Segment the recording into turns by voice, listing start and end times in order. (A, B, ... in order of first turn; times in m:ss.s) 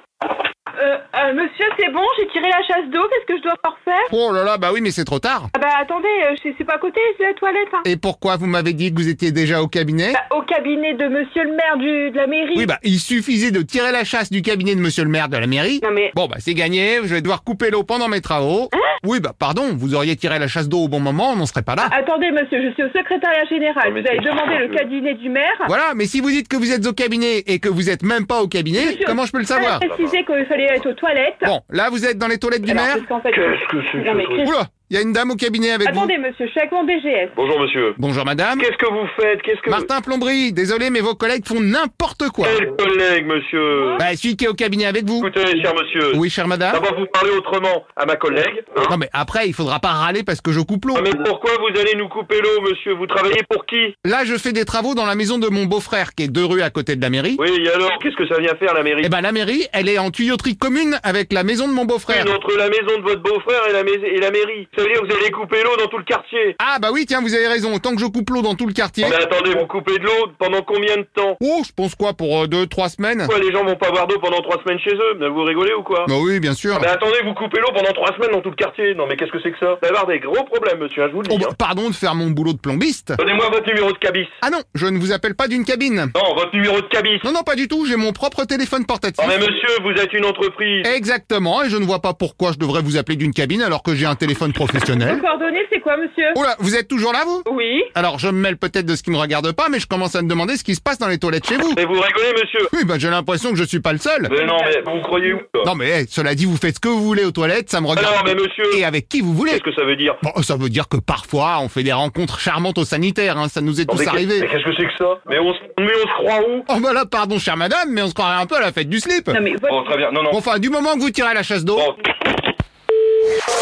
0:00.8-0:04.1 A
0:04.1-0:05.5 B
0:05.5-0:07.8 A
0:07.8-0:10.2 B
0:10.1-0:12.7 A
0:12.5-0:21.9 B
0:15.8-0:16.1 A
0:21.8-0:25.7 A
0:23.8-0:24.8 C
0:25.7-0:29.8 B
0:28.8-0:31.5 A
0:29.6-0:30.2 C
0:31.4-0:33.0 B
0:32.6-0:34.5 A
0:33.3-0:34.5 C
0:34.4-0:36.1 B
0:35.8-0:37.3 A
0:37.4-0:38.0 C
0:38.0-0:38.6 B
0:38.6-0:39.9 C
0:39.6-0:42.6 B
0:42.4-0:44.0 C
0:43.8-0:44.0 A
0:44.0-0:45.3 B
0:45.2-0:48.9 C
0:46.1-0:46.8 B
0:48.8-0:51.1 B
0:50.9-0:53.9 C
0:54.0-0:57.4 B
0:57.4-0:59.1 C
0:59.0-1:02.3 B
1:02.1-1:06.6 C
1:06.6-1:09.2 B
1:09.0-1:11.4 C
1:11.4-1:13.3 B
1:13.2-1:16.1 C
1:16.0-1:16.9 B
1:16.7-1:21.5 C
1:21.3-1:23.2 B
1:23.2-1:24.3 C
1:24.4-1:26.1 B
1:26.1-1:27.3 C
1:27.2-1:29.4 B
1:29.2-1:30.9 C
1:30.8-1:35.2 B
1:35.0-1:36.4 A
1:36.3-1:41.8 B
1:37.5-1:37.9 A
1:41.7-1:42.7 C
1:42.7-1:44.3 B
1:44.2-1:45.7 C
1:45.6-1:49.6 B
1:47.9-1:48.8 C
1:49.5-1:50.2 C
1:50.2-1:54.5 B
1:53.9-1:56.6 C
1:56.7-1:59.4 B
1:59.3-2:00.0 A
1:59.7-2:00.4 C
2:00.3-2:01.9 B